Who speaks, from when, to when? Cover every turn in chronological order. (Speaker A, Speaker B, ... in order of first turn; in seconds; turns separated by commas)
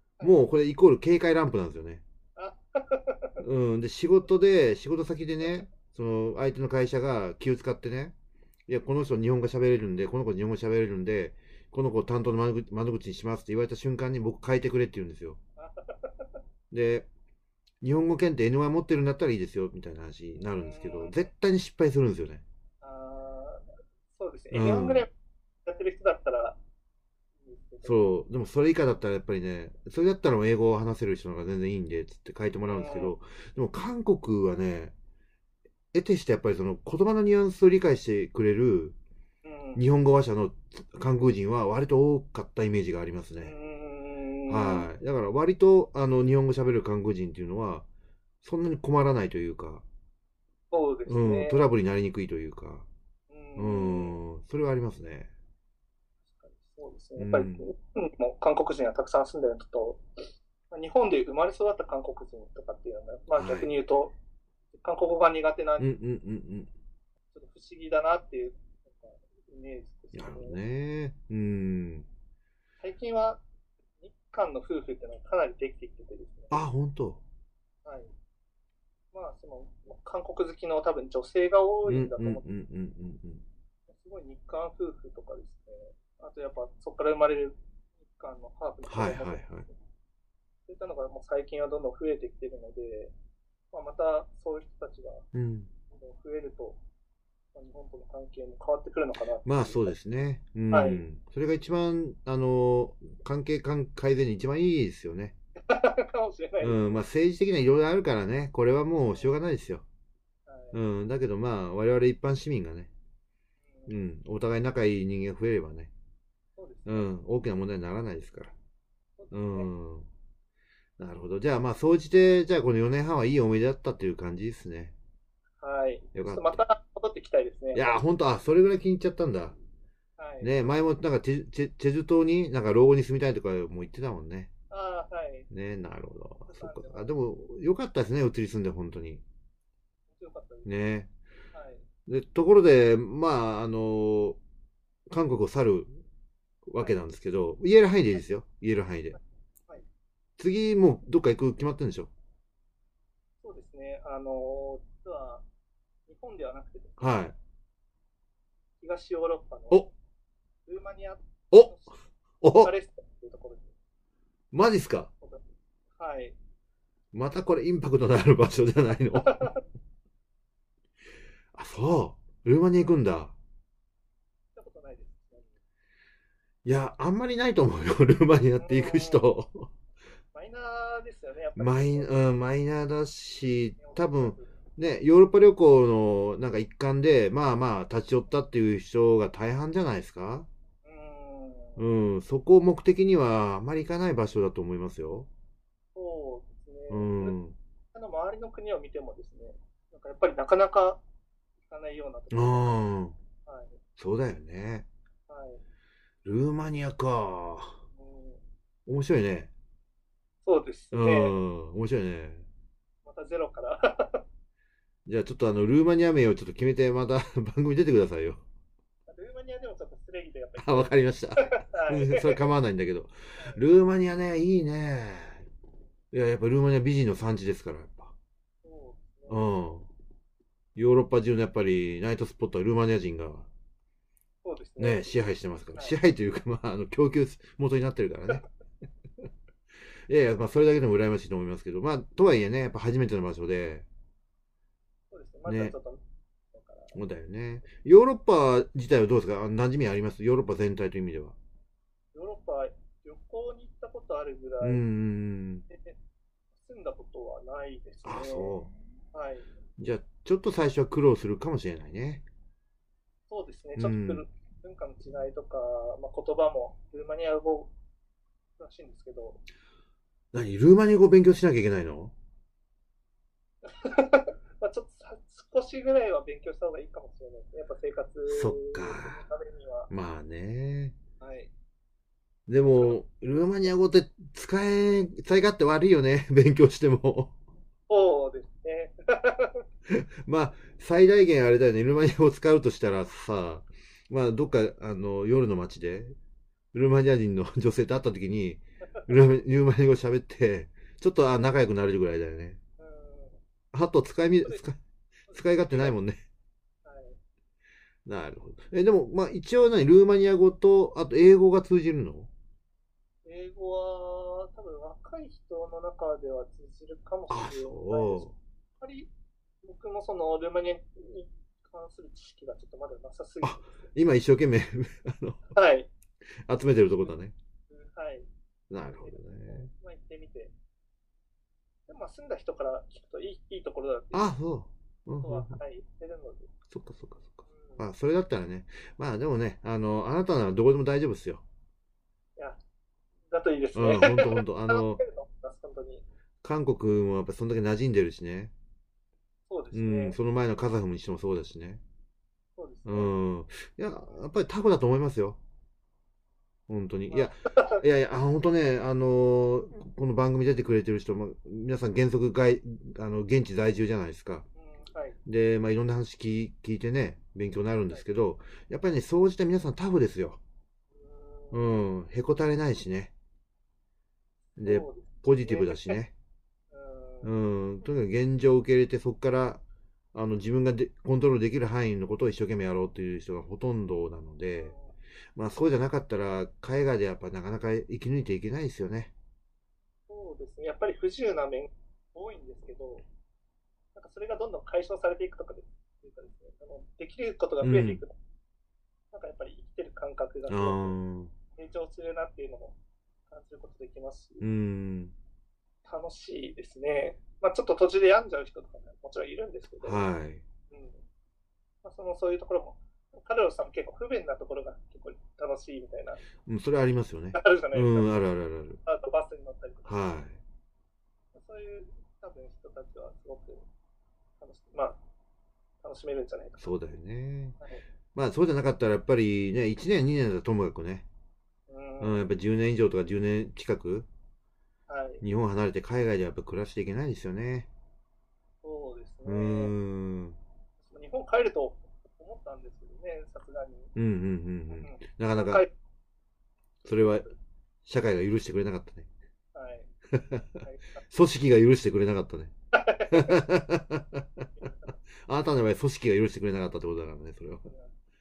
Speaker A: 0.2-0.5, Speaker B: 0.2-2.0, Speaker A: 2.4-3.4, Speaker B: 3.4-8.1, Speaker B: 8.7-15.4, Speaker A: 15.6-16.4, Speaker B: 16.7-17.1, Speaker B: 17.8-22.4, Speaker A: 20.4-21.3, Speaker A: 22.8-25.1, Speaker B: 24.5-25.1, Speaker A: 25.6-26.6, Speaker A: 27.4-28.1, Speaker B: 27.8-34.9, Speaker A: 32.7-33.1, Speaker B: 35.9-39.0, Speaker A: 39.4-39.8, Speaker B: 39.7-43.5, Speaker A: 43.4-44.9, Speaker B: 44.5-47.9, Speaker B: 48.4-49.8, Speaker A: 50.7-51.6, Speaker B: 51.1-52.9, Speaker A: 53.3-54.2, Speaker B: 53.6-55.3, Speaker A: 56.3-60.0, Speaker B: 57.2-57.7, Speaker A: 60.7-64.1, Speaker B: 63.3-63.7, Speaker A: 64.7-65.9, Speaker B: 65.8-66.7, Speaker A: 67.3-70.6, Speaker B: 70.1-72.1, Speaker A: 72.8-73.4, Speaker A: 74.0-76.6, Speaker B: 76.5-77.2, Speaker A: 77.8-78.1, Speaker A: 79.1-82.4, Speaker B: 81.9-83.4, Speaker A: 83.9-89.7, Speaker B: 88.8-89.7, Speaker A: 90.7-93.1, Speaker A: 93.7-95.2, Speaker B: 95.3-95.7, Speaker A: 95.9-96.8, Speaker A: 97.5-100.0, Speaker B: 99.4-105.3, Speaker A: 100.7-101.0, Speaker A: 105.7-107.0, Speaker B: 106.6-109.8, Speaker A: 109.0-109.4, Speaker A: 110.5-110.8, Speaker B: 110.7-112.9, Speaker A: 113.7-113.9, Speaker B: 113.9-115.9, Speaker A: 116.5-117.1, Speaker B: 116.8-118.5, Speaker A: 119.2-119.7, Speaker B: 119.3-120.1, Speaker B: 121.0-124.9, Speaker A: 125.6-128.0, Speaker B: 126.1-126.6, Speaker B: 127.7-129.6, Speaker A: 130.2-130.8, Speaker B: 130.4-134.5, Speaker A: 134.7-135.5, Speaker B: 135.5-139.2, Speaker A: 136.5-137.1, Speaker A: 140.1-140.7, Speaker B: 140.6-141.1, Speaker A: 141.5-141.8, Speaker B: 142.1-144.4, Speaker B: 145.1-146.0, Speaker B: 146.7-149.2, Speaker A: 149.1-149.8, Speaker B: 150.4-152.1, Speaker A: 153.4-155.4, Speaker A: 156.1-157.0, Speaker B: 157.0-157.3, Speaker A: 158.8-159.9, Speaker A: 160.7-162.1, Speaker B: 162.4-162.7, Speaker A: 162.6-163.7, Speaker B: 164.5-165.1, Speaker A: 165.2-166.3, Speaker B: 167.1-169.5, Speaker A: 169.3-169.5, Speaker B: 171.5-173.3, Speaker A: 172.7-173.0, Speaker A: 174.5-175.6, Speaker B: 176.6-179.7, Speaker A: 178.6-179.3, Speaker A: 180.3-182.2, Speaker B: 181.6-190.5, Speaker A: 183.8-184.6, Speaker A: 190.8-191.8, Speaker B: 191.8-195.3, Speaker A: 195.9-197.4, Speaker B: 196.9-197.6, Speaker A: 197.9-201.0, Speaker A: 201.7-202.8, Speaker B: 202.3-203.2, Speaker A: 203.4-203.8, Speaker B: 204.0-204.8, Speaker A: 205.3-205.6, Speaker B: 206.2-207.8, Speaker A: 207.9-208.4, Speaker B: 208.9-209.5, Speaker A: 210.4-211.4, Speaker B: 210.9-212.5, Speaker A: 213.0-214.2, Speaker B: 215.1-218.4, Speaker A: 219.1-222.4, Speaker B: 220.6-225.4, Speaker B: 226.1-228.1, Speaker A: 228.6-229.6, Speaker B: 229.3-229.9, Speaker B: 230.8-233.5, Speaker A: 234.4-235.2, Speaker B: 234.8-238.4, Speaker B: 240.1-243.8, Speaker A: 245.1-246.0, Speaker B: 245.5-245.7, Speaker A: 246.5-247.0, Speaker B: 246.9-251.3, Speaker A: 252.1-254.8, Speaker B: 254.6-255.7, Speaker A: 255.7-256.0, Speaker A: 256.6-258.6, Speaker B: 258.0-258.7, Speaker A: 259.1-259.5, Speaker B: 259.8-262.2, Speaker A: 263.3-267.7, Speaker B: 263.8-264.2, Speaker A: 268.6-269.4, Speaker B: 270.3-272.1, Speaker A: 273.6-279.9, Speaker B: 278.3-279.2, Speaker B: 279.9-280.9, Speaker A: 281.2-281.5, Speaker B: 282.5-287.3, Speaker A: 282.6-283.0, Speaker A: 287.9-289.6, Speaker B: 289.9-296.1, Speaker B: 296.7-302.6, Speaker A: 298.8-299.2, Speaker A: 302.8-303.4, Speaker B: 303.7-304.8, Speaker A: 305.3-306.0, Speaker B: 305.3-306.2, Speaker A: 306.8-307.2, Speaker B: 308.1-312.3, Speaker A: 313.2-318.3, Speaker B: 317.3-318.4, Speaker A: 318.8-319.1, Speaker A: 319.6-323.6, Speaker B: 323.4-325.5, Speaker A: 325.5-325.9, Speaker B: 326.5-327.3, Speaker A: 327.7-328.3, Speaker B: 328.7-329.7, Speaker A: 328.9-330.5, Speaker A: 331.9-334.3, Speaker B: 334.1-335.6, Speaker A: 335.2-336.5, Speaker B: 336.7-341.4, Speaker A: 337.5-337.9, Speaker A: 343.3-346.0, Speaker B: 343.7-345.0, Speaker B: 346.4-348.5, Speaker A: 349.5-350.2, Speaker B: 349.7-351.8, Speaker A: 352.6-353.1, Speaker B: 352.9-355.4, Speaker B: 356.7-364.4, Speaker A: 357.1-357.8, Speaker A: 364.6-365.2, Speaker B: 365.2-370.4, Speaker A: 370.9-371.7, Speaker B: 371.5-373.1, Speaker A: 374.6-376.0, Speaker B: 374.6-376.1, Speaker A: 376.7-377.3, Speaker B: 377.2-379.6, Speaker B: 380.1-384.7, Speaker A: 384.5-384.9, Speaker B: 385.3-389.1, Speaker A: 390.1-393.0, Speaker A: 393.9-398.1, Speaker B: 397.6-398.0, Speaker A: 399.1-401.0, Speaker B: 400.5-401.3, Speaker A: 401.5-402.8, Speaker A: 403.3-404.4, Speaker B: 404.4-405.1, Speaker A: 405.8-410.1, Speaker B: 409.8-410.4, Speaker A: 410.7-411.0, Speaker A: 411.8-416.2, Speaker B: 416.4-418.8, Speaker A: 417.3-418.2, Speaker A: 418.8-420.0, Speaker B: 419.8-420.4, Speaker A: 421.3-423.6, Speaker A: 424.4-425.0, Speaker A: 425.8-426.7, Speaker B: 426.6-427.6, Speaker B: 428.1-431.1, Speaker A: 431.7-432.3, Speaker B: 432.0-434.1, Speaker A: 434.9-435.2, Speaker B: 435.2-437.7, Speaker A: 438.6-439.7, Speaker B: 439.2-440.4, Speaker A: 440.8-443.9, Speaker B: 443.9-445.6, Speaker A: 444.7-445.7, Speaker B: 446.8-447.3, Speaker A: 446.9-447.3, Speaker B: 447.9-449.1, Speaker A: 449.5-449.9, Speaker B: 450.1-452.5, Speaker A: 450.6-451.0, Speaker A: 452.7-453.5, Speaker B: 453.1-454.5, Speaker A: 454.6-455.0, Speaker B: 455.2-457.7, Speaker A: 457.6-457.9